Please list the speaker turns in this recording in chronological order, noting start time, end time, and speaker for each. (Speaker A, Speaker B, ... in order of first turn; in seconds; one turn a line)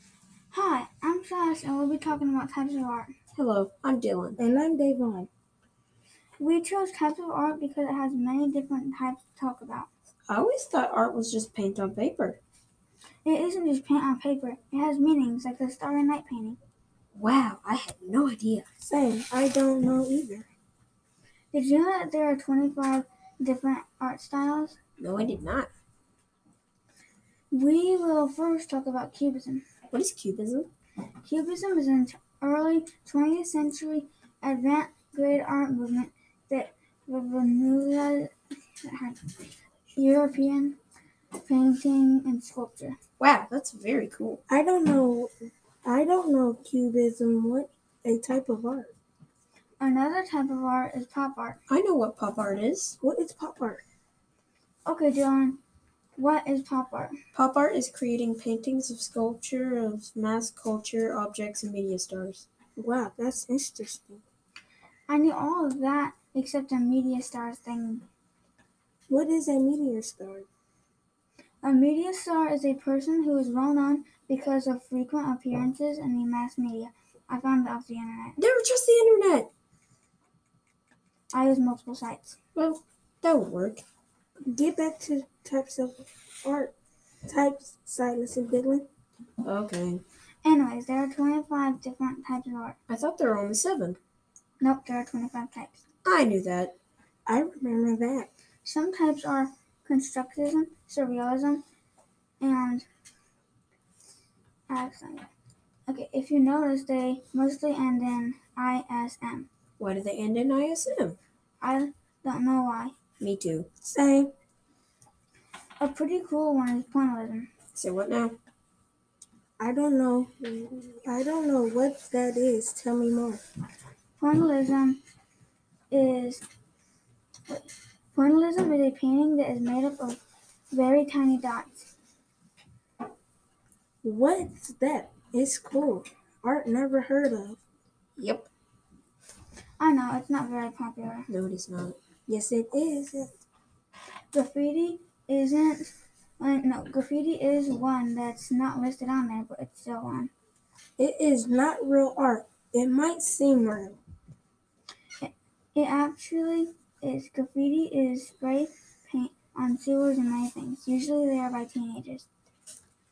Speaker A: 0.5-3.1
Speaker B: 3.3-4.4
Speaker C: 4.4-5.3
Speaker A: 6.4-9.9
Speaker B: 10.3-12.4
Speaker A: 13.2-16.6
Speaker B: 17.1-18.7
Speaker C: 18.8-20.5
Speaker A: 21.5-24.8
Speaker B: 25.0-25.7
Speaker A: 27.5-29.6
Speaker B: 29.9-30.7
Speaker A: 31.2-39.4
Speaker A: 40.0-40.8
Speaker A: 41.4-43.0
Speaker B: 43.2-44.4
Speaker C: 44.5-45.3
Speaker C: 45.8-48.9
Speaker A: 49.8-51.6
Speaker B: 51.7-53.0
Speaker C: 53.0-53.8
Speaker A: 54.9-55.6
Speaker A: 56.2-57.2
Speaker B: 57.3-62.5
Speaker C: 62.8-64.2
Speaker A: 65.1-68.1
Speaker C: 69.1-70.5
Speaker A: 71.6-78.4
Speaker B: 78.4-79.5
Speaker A: 81.3-82.3
Speaker B: 82.6-83.8
Speaker C: 84.5-86.7
Speaker C: 87.3-88.9
Speaker B: 89.4-90.0
Speaker A: 90.4-92.8
Speaker B: 92.9-94.0
Speaker A: 94.6-95.8
Speaker B: 96.0-96.7
Speaker C: 97.3-98.3
Speaker A: 98.6-101.6
Speaker A: 102.4-102.9
Speaker A: 104.7-105.3
Speaker A: 105.9-109.5
Speaker B: 109.8-111.2
Speaker A: 111.6-112.9
Speaker B: 113.2-113.7
Speaker C: 113.8-114.3
Speaker A: 115.8-117.5
Speaker B: 117.8-118.4
Speaker C: 119.6-123.4
Speaker A: 124.2-125.0
Speaker A: 125.9-126.4
Speaker A: 127.5-131.9
Speaker C: 134.0-137.6
Speaker B: 138.2-138.5
Speaker A: 139.8-141.3
Speaker B: 141.3-142.0
Speaker C: 142.3-143.3
Speaker A: 144.3-150.3
Speaker C: 151.0-154.0
Speaker A: 155.2-162.3